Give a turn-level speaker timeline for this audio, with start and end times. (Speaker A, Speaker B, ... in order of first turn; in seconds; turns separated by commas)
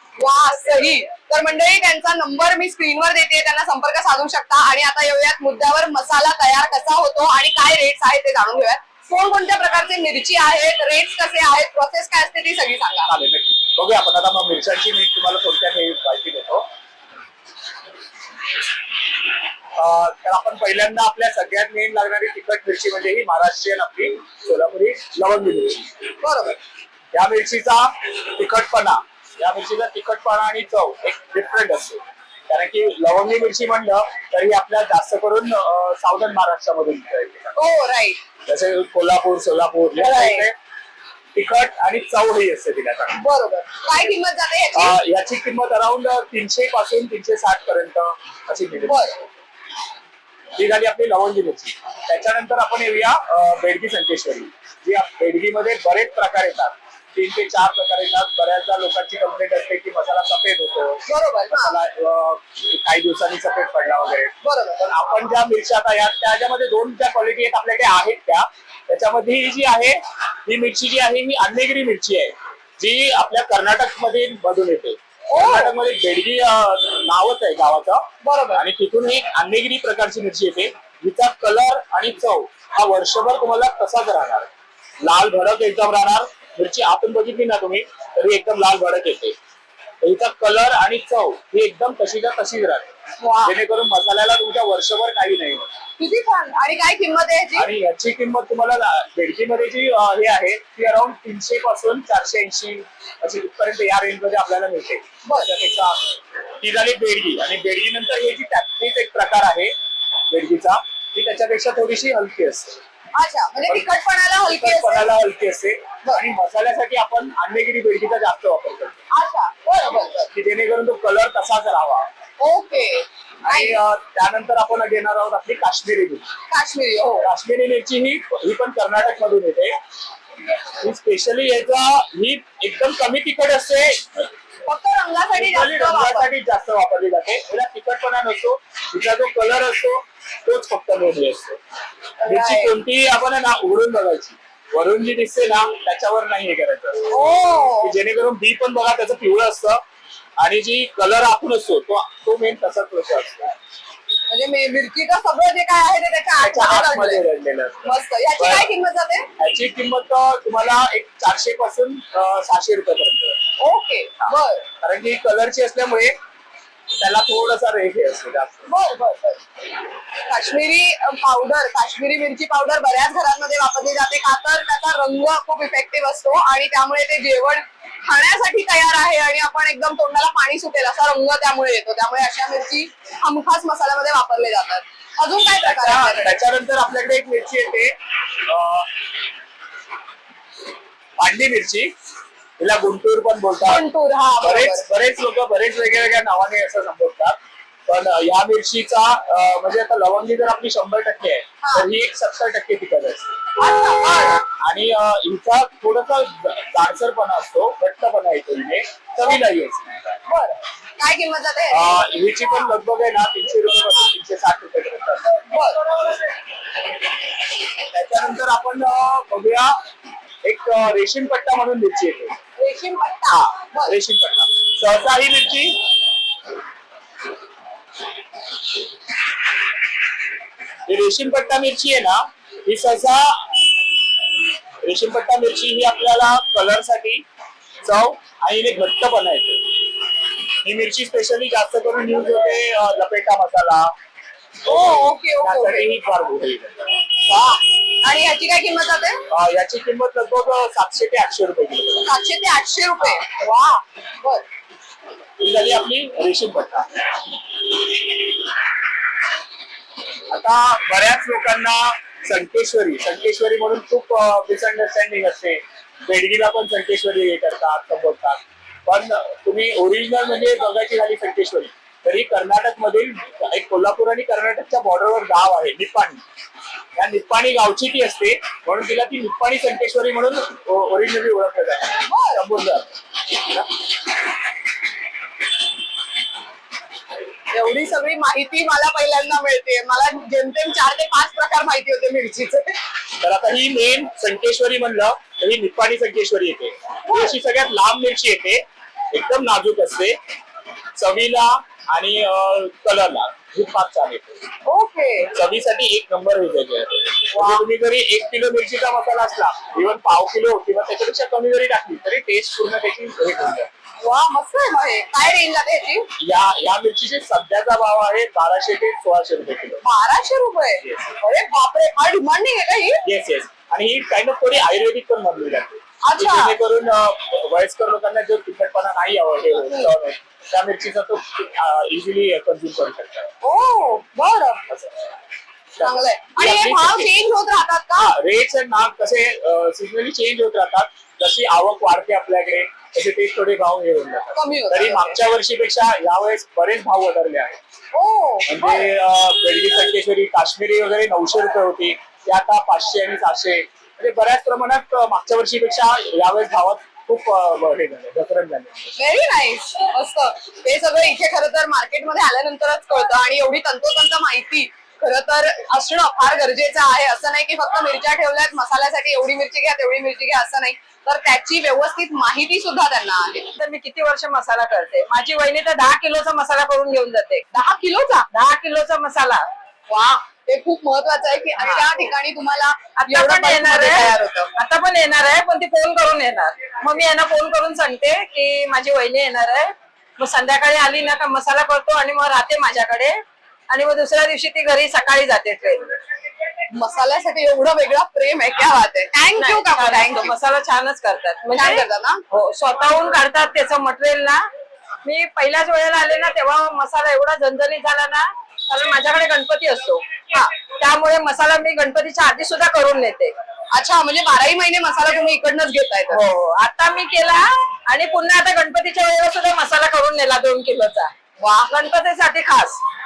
Speaker A: 0.2-13.1, Speaker B: 13.1-16.6, Speaker B: 19.8-25.9, Speaker A: 26.2-26.6, Speaker B: 27.1-37.5, Speaker A: 37.5-38.2, Speaker B: 38.5-40.5, Speaker A: 40.0-40.5, Speaker B: 41.3-43.2, Speaker A: 43.1-45.0, Speaker B: 44.7-49.0, Speaker A: 48.8-49.1, Speaker B: 50.5-84.5, Speaker A: 61.1-61.8, Speaker A: 64.4-64.8, Speaker A: 75.3-75.7, Speaker A: 78.2-78.6, Speaker B: 85.0-89.3, Speaker B: 90.0-92.9, Speaker A: 93.2-93.5, Speaker B: 93.4-95.7, Speaker A: 96.0-97.7, Speaker B: 97.5-109.7, Speaker A: 105.2-105.5, Speaker B: 110.3-112.8, Speaker A: 113.2-115.1, Speaker B: 114.5-119.0, Speaker A: 119.1-120.3, Speaker B: 120.3-122.1, Speaker A: 122.4-123.8, Speaker B: 123.4-126.3, Speaker A: 126.5-127.3, Speaker B: 127.2-129.8, Speaker B: 130.8-134.3, Speaker A: 134.6-136.3, Speaker B: 135.4-141.6, Speaker A: 142.2-142.7, Speaker B: 142.2-147.1, Speaker A: 147.1-147.9, Speaker B: 147.8-149.8, Speaker B: 150.4-153.6, Speaker A: 154.3-157.2, Speaker B: 156.4-158.6, Speaker A: 157.8-159.3, Speaker B: 159.4-163.4, Speaker A: 163.6-164.6, Speaker B: 164.2-166.1, Speaker B: 167.0-168.7, Speaker A: 168.7-169.4, Speaker A: 170.3-186.3, Speaker B: 185.6-187.9, Speaker B: 188.4-188.9, Speaker B: 191.2-191.9, Speaker B: 192.6-193.8, Speaker A: 193.6-194.8, Speaker B: 194.4-197.4, Speaker B: 197.9-203.3, Speaker A: 201.6-201.9, Speaker A: 203.6-204.4, Speaker B: 204.5-210.2, Speaker A: 210.3-212.0, Speaker B: 211.7-215.4, Speaker A: 215.5-215.8, Speaker B: 217.8-219.7, Speaker B: 220.4-222.3, Speaker A: 222.6-223.9, Speaker B: 223.3-225.8, Speaker B: 230.9-233.6, Speaker B: 234.8-237.2, Speaker B: 237.8-239.7, Speaker B: 240.6-243.9, Speaker A: 244.7-245.9, Speaker B: 244.7-247.0, Speaker A: 247.3-249.2, Speaker B: 249.3-252.1, Speaker A: 252.0-254.4, Speaker B: 255.4-257.1, Speaker B: 260.3-276.2, Speaker B: 276.9-282.9, Speaker A: 282.1-282.4, Speaker A: 287.5-292.8, Speaker B: 293.2-300.2, Speaker A: 297.1-297.4, Speaker B: 300.9-304.4, Speaker A: 304.6-305.3, Speaker B: 305.3-313.7, Speaker A: 307.3-307.6, Speaker A: 314.0-316.1, Speaker B: 316.2-319.8, Speaker A: 319.8-323.0, Speaker B: 320.8-321.1, Speaker B: 323.0-333.3, Speaker A: 326.0-326.6, Speaker A: 329.6-329.9, Speaker A: 333.4-334.6, Speaker B: 334.7-335.0, Speaker B: 335.8-337.2, Speaker A: 335.8-338.1, Speaker B: 338.0-347.6, Speaker A: 344.3-345.2, Speaker A: 347.9-348.9, Speaker B: 348.4-358.9, Speaker A: 359.0-373.5, Speaker C: 373.6-377.4, Speaker A: 377.5-378.3, Speaker C: 378.3-379.5, Speaker A: 379.9-384.5, Speaker C: 381.6-382.0, Speaker C: 383.0-395.9, Speaker A: 396.7-400.4, Speaker C: 399.4-404.4, Speaker A: 401.5-402.2, Speaker C: 405.0-410.1, Speaker C: 410.7-413.3, Speaker A: 413.7-416.2, Speaker C: 416.1-422.8